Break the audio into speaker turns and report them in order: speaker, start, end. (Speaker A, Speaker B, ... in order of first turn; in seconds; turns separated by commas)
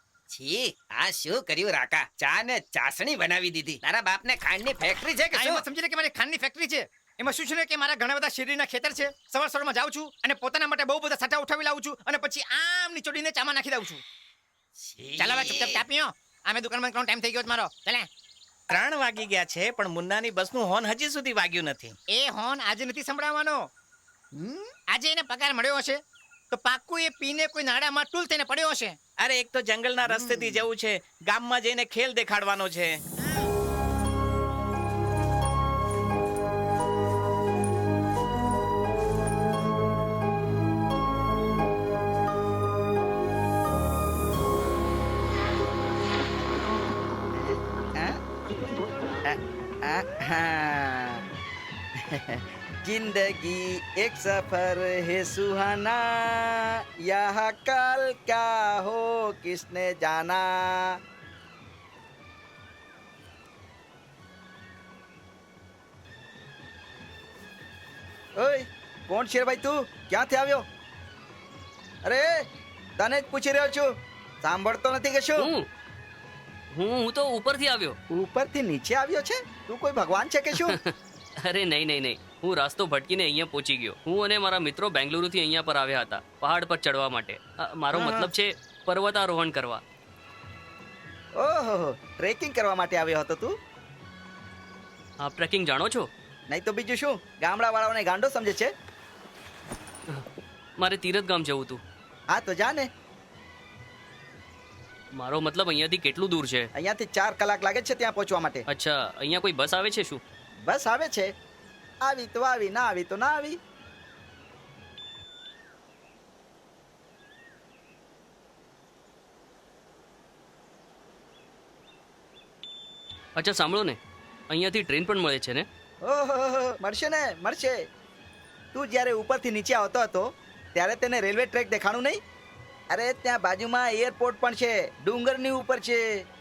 Speaker A: 0.3-5.7, Speaker B: 5.3-14.0, Speaker A: 14.8-15.8, Speaker B: 15.2-18.1, Speaker C: 18.7-21.9, Speaker B: 22.1-23.7, Speaker B: 24.9-29.0, Speaker C: 29.2-33.0, Speaker A: 30.1-30.6, Speaker D: 47.4-48.2, Speaker D: 49.3-51.2, Speaker D: 52.1-61.0, Speaker D: 68.4-70.6, Speaker D: 73.0-73.9, Speaker D: 74.4-75.5, Speaker E: 75.4-75.7, Speaker E: 76.7-78.0, Speaker D: 78.1-80.8, Speaker E: 80.7-80.9, Speaker E: 81.4-89.8, Speaker D: 87.9-88.3, Speaker D: 91.4-93.5, Speaker E: 95.2-96.1, Speaker D: 96.5-98.7, Speaker E: 100.8-101.8, Speaker D: 102.3-102.9, Speaker E: 105.2-106.7, Speaker D: 106.8-108.6, Speaker E: 108.7-110.2, Speaker D: 110.7-111.3, Speaker D: 112.0-113.6, Speaker E: 123.3-124.0, Speaker E: 124.5-125.6, Speaker D: 126.0-127.8, Speaker D: 128.7-132.2, Speaker D: 132.9-136.0